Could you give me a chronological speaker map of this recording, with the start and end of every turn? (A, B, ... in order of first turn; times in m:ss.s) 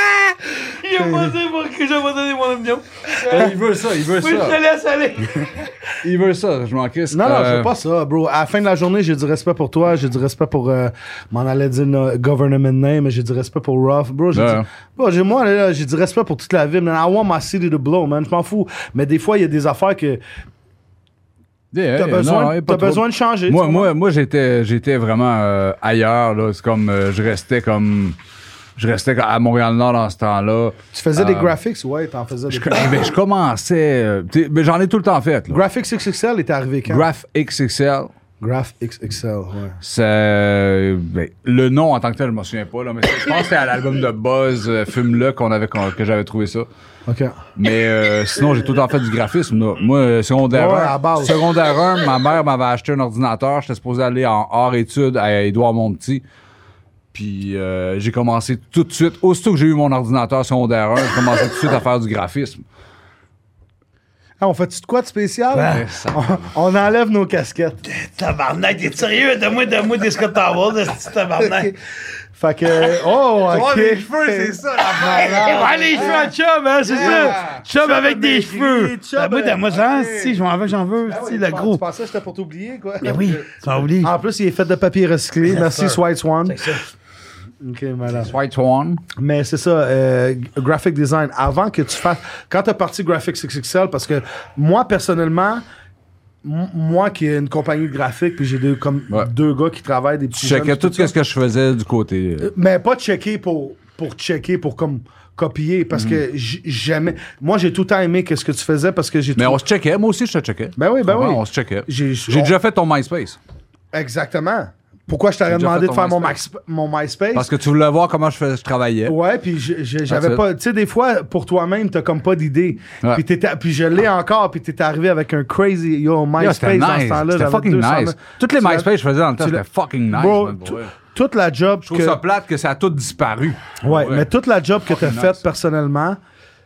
0:00.7-0:03.5 A
0:00.9-0:01.4 B
0:03.3-0:04.6 C
0:04.1-0:05.6 A
0:06.0-0:07.7 C
0:07.1-0:20.2 B
0:14.3-0:14.7 C
0:21.7-0:28.2 C
0:22.0-0:23.9 B
0:28.8-0:31.5 C
0:30.9-0:33.1 B
0:32.5-0:35.6 C
0:35.5-0:37.0 B
0:36.9-0:38.1 C
0:38.4-0:39.8 B
0:39.8-0:46.7 C
0:47.1-0:47.4 B
0:47.6-0:56.2 C
0:50.5-0:51.4 B
0:57.1-1:02.6 C
1:04.4-1:07.8 B
1:05.5-1:05.8 A
1:05.7-1:06.5 C
1:07.8-1:11.7 A
1:11.4-1:11.8 B
1:12.3-1:20.4 B
1:13.4-1:16.2 C
1:15.1-1:21.8 A
1:16.9-1:17.6 C
1:21.1-1:23.5 B
1:23.0-1:24.1 A
1:24.0-1:26.7 B
1:25.4-1:26.9 A
1:27.6-1:28.3 B
1:28.2-1:29.0 C
1:29.2-1:35.6 B
1:36.4-1:41.1 B
1:40.4-1:42.5 C
1:42.4-1:49.6 B
1:45.9-1:46.2 C
1:49.4-1:53.4 C
1:50.8-1:52.5 B
1:53.9-1:57.5 B
1:55.5-1:56.4 C
1:57.3-1:59.2 C
1:59.0-2:08.9 B
2:00.1-2:00.4 C
2:06.4-2:10.9 C
2:09.4-2:12.2 B
2:11.8-2:14.3 C
2:13.8-2:16.2 B
2:14.9-2:15.4 C